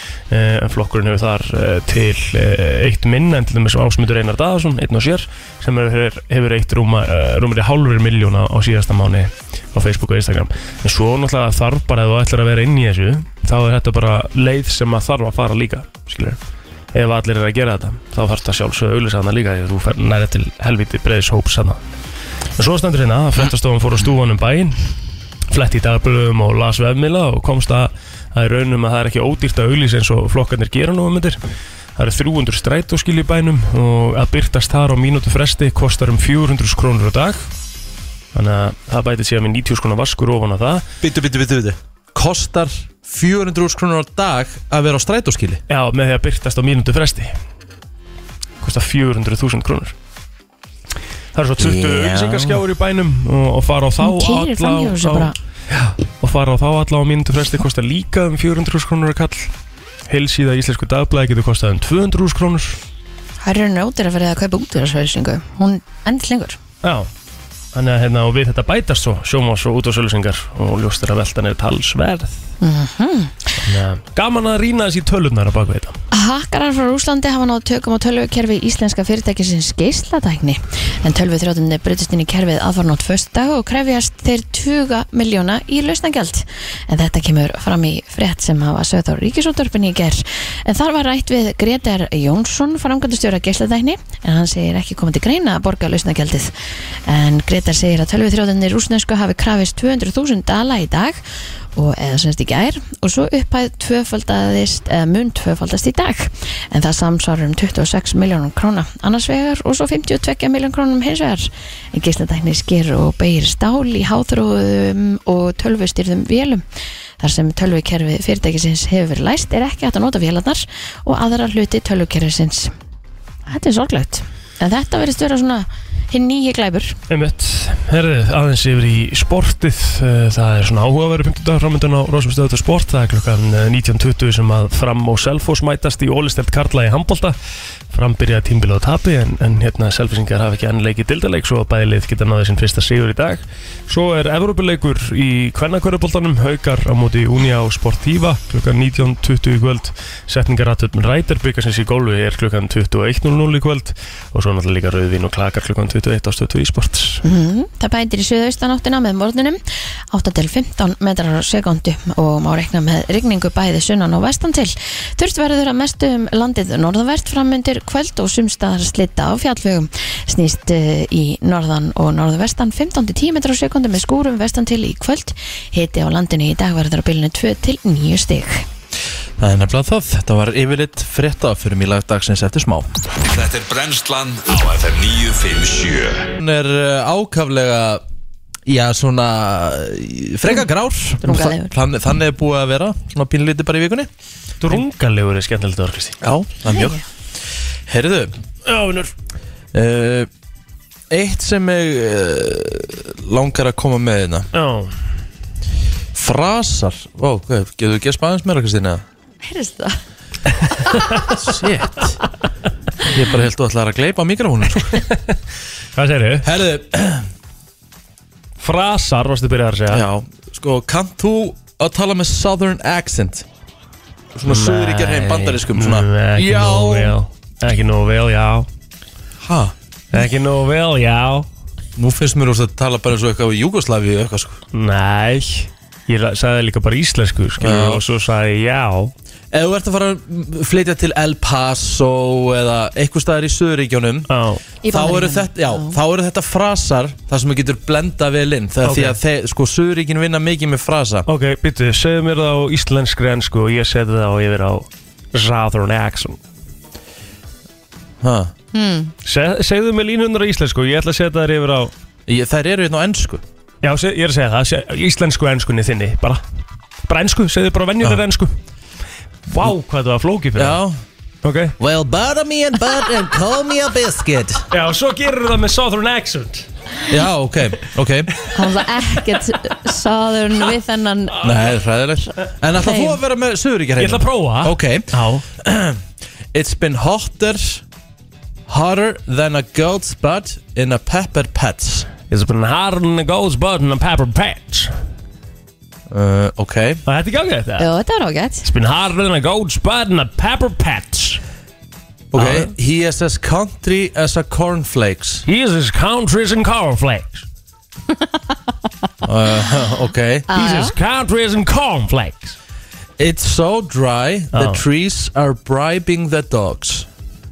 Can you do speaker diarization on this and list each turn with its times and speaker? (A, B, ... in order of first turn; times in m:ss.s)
0:00.3-0:16.4 A
0:16.9-0:21.8 A
0:22.6-0:24.8 A
0:25.5-0:31.4 A
0:32.0-0:37.4 A
0:38.3-0:40.8 A
0:41.0-0:45.6 B
0:45.7-0:47.3 A
0:48.6-0:49.9 A
0:51.4-0:59.5 A
0:51.6-0:52.6 B
0:54.0-0:55.4 C
1:00.1-1:02.8 A
1:03.4-1:06.6 C
1:06.8-1:07.1 A
1:07.7-1:12.4 A
1:12.6-1:13.5 C
1:13.6-1:16.0 A
1:16.1-1:36.5 C
1:37.1-1:41.2 C
1:41.8-1:56.6 C
1:57.2-2:02.7 C
2:03.5-2:07.0 C
2:07.1-2:17.4 A
2:17.9-2:37.2 A
2:37.2-2:58.6 C
2:59.4-3:02.9 B
3:03.2-3:06.3 D
3:06.4-3:08.0 B
3:08.7-3:14.1 B
3:11.2-3:11.7 C
3:14.6-3:16.2 A
3:16.2-3:17.0 B
3:16.7-3:17.0 C
3:17.9-3:18.4 B
3:18.6-3:19.1 A
3:19.7-3:20.3 B
3:21.1-3:24.5 B
3:24.5-3:24.9 A
3:26.1-3:29.0 B
3:29.4-3:30.0 C
3:31.3-3:32.2 B
3:33.0-3:35.0 B
3:34.9-3:35.4 A
3:35.9-3:36.5 A
3:36.4-3:37.3 B
3:38.6-3:40.0 A
3:39.9-3:43.4 B
3:44.4-3:47.1 B
3:44.4-3:48.7 A
3:49.4-3:49.7 B
3:50.1-3:51.5 A
3:52.0-3:54.6 B
3:54.7-3:59.1 A
3:57.6-3:58.0 B
3:59.5-4:04.3 B
4:04.3-4:04.6 A
4:04.8-4:06.0 C
4:04.9-4:11.3 B
4:08.8-4:09.2 A
4:11.3-4:16.4 A
4:18.2-4:18.5 B
4:18.7-4:19.1 C
4:19.2-4:21.9 A
4:22.3-4:23.4 B
4:23.8-4:26.4 A
4:27.1-4:28.5 A
4:29.5-4:30.8 A
4:30.6-4:31.0 B
4:31.4-4:31.7 A
4:31.8-4:34.7 B
4:34.7-4:36.7 A
4:37.1-4:38.3 B
4:38.5-4:41.4 C
4:41.4-4:46.0 B
4:42.8-4:43.2 C
4:44.0-4:45.4 A
4:46.5-4:47.8 B
4:48.7-4:52.1 B
4:52.3-4:54.9 A
4:56.1-4:57.0 B
4:57.1-4:57.9 A
4:57.8-4:58.6 C
4:58.6-5:01.4 A
5:02.3-5:05.4 B
5:02.4-5:02.7 A
5:05.4-5:07.4 A
5:09.2-5:10.5 B
5:10.5-5:10.9 C
5:10.5-5:12.6 A
5:13.2-5:17.1 B
5:14.5-5:14.8 A